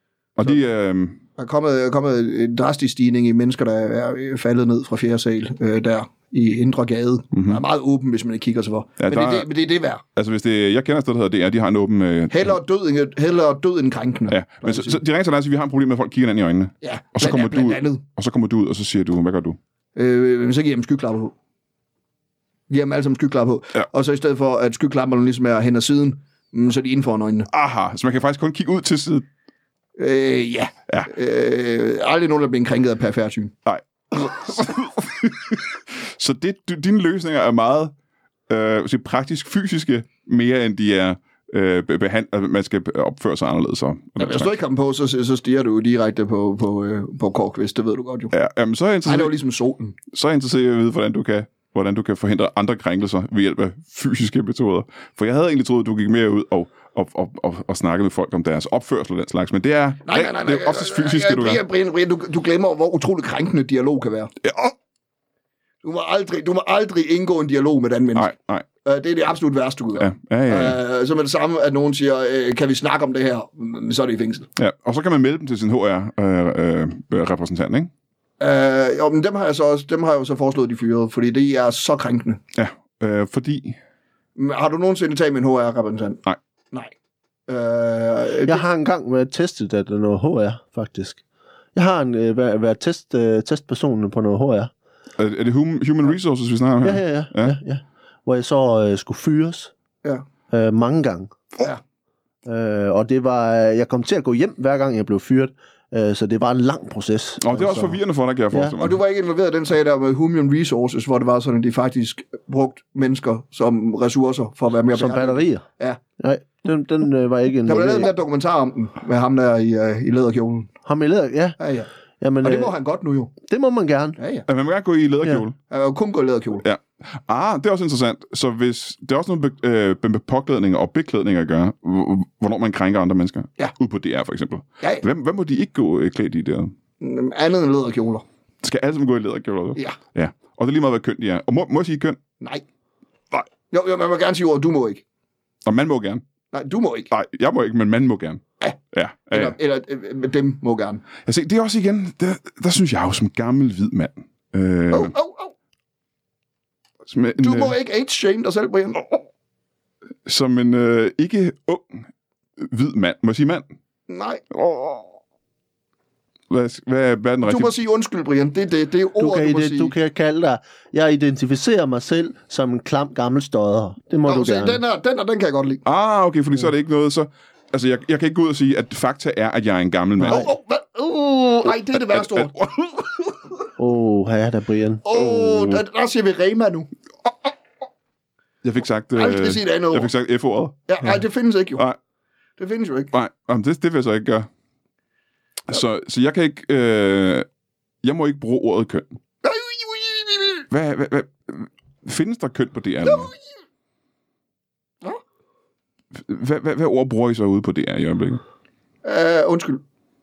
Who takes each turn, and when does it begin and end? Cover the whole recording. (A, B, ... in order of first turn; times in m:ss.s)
0:00.4-0:01.2 A
0:01.4-0:10.0 B
0:07.3-0:07.6 A
0:09.0-0:09.5 A
0:10.2-0:12.6 A
0:12.3-0:15.0 B
0:14.3-0:19.6 A
0:16.8-0:18.0 B
0:20.0-0:21.3 B
0:22.7-0:27.5 B
0:27.5-0:29.3 A
0:30.0-0:33.5 B
0:33.6-0:37.9 A
0:38.5-0:44.5 A
0:44.2-0:48.3 B
0:48.3-0:49.4 A
0:49.0-0:50.0 B
0:50.1-1:01.6 A
1:00.1-1:04.3 B
1:04.4-1:04.7 A
1:05.8-1:08.3 B
1:08.1-1:08.7 A
1:08.8-1:14.5 B
1:10.0-1:10.8 A
1:14.6-1:17.9 A
1:18.4-1:22.4 B
1:22.5-1:23.8 A
1:24.4-1:26.2 B
1:27.5-1:28.6 B
1:28.4-1:31.2 C
1:31.8-1:34.7 C
1:35.2-1:37.6 A
1:36.8-1:39.7 C
1:40.5-1:41.3 C
1:42.4-1:48.0 C
1:47.4-1:49.0 A
1:48.8-1:56.0 B
1:54.9-1:55.6 C
1:56.2-1:58.1 C
1:57.7-2:00.7 B
2:00.8-2:01.6 C
2:01.6-2:01.9 B
2:02.2-2:02.8 C
2:02.4-2:03.3 B
2:03.4-2:04.2 C
2:04.2-2:04.5 B
2:04.5-2:05.6 A
2:05.7-2:06.6 B
2:06.6-2:16.7 A
2:17.0-2:18.2 B
2:18.6-2:22.2 A
2:23.7-2:25.0 B
2:25.6-2:26.2 A
2:26.5-2:27.1 B
2:27.1-2:29.6 A
2:29.3-2:31.0 B
2:31.3-2:35.1 A
2:34.9-2:35.5 B
2:37.1-2:37.8 A
2:37.4-2:39.3 B
2:40.3-2:42.0 A
2:42.6-2:43.6 A
2:44.1-2:45.0 B
2:46.5-2:47.7 A
2:47.4-2:49.9 B
2:49.2-2:54.8 C
2:54.3-2:55.8 B
2:55.8-3:00.5 A
3:00.2-3:02.7 B
3:01.9-3:02.8 A
3:03.8-3:05.1 C
3:05.1-3:06.9 B
3:05.1-3:05.8 A
3:08.6-3:11.2 A
3:09.1-3:10.1 B
3:10.9-3:11.8 B
3:12.6-3:13.1 B
3:13.1-3:14.5 A
3:15.7-3:17.5 A
3:18.0-3:19.1 A
3:19.4-3:20.6 B
3:20.7-3:23.3 A
3:23.0-3:23.4 B
3:26.1-3:28.4 A
3:29.0-3:29.8 B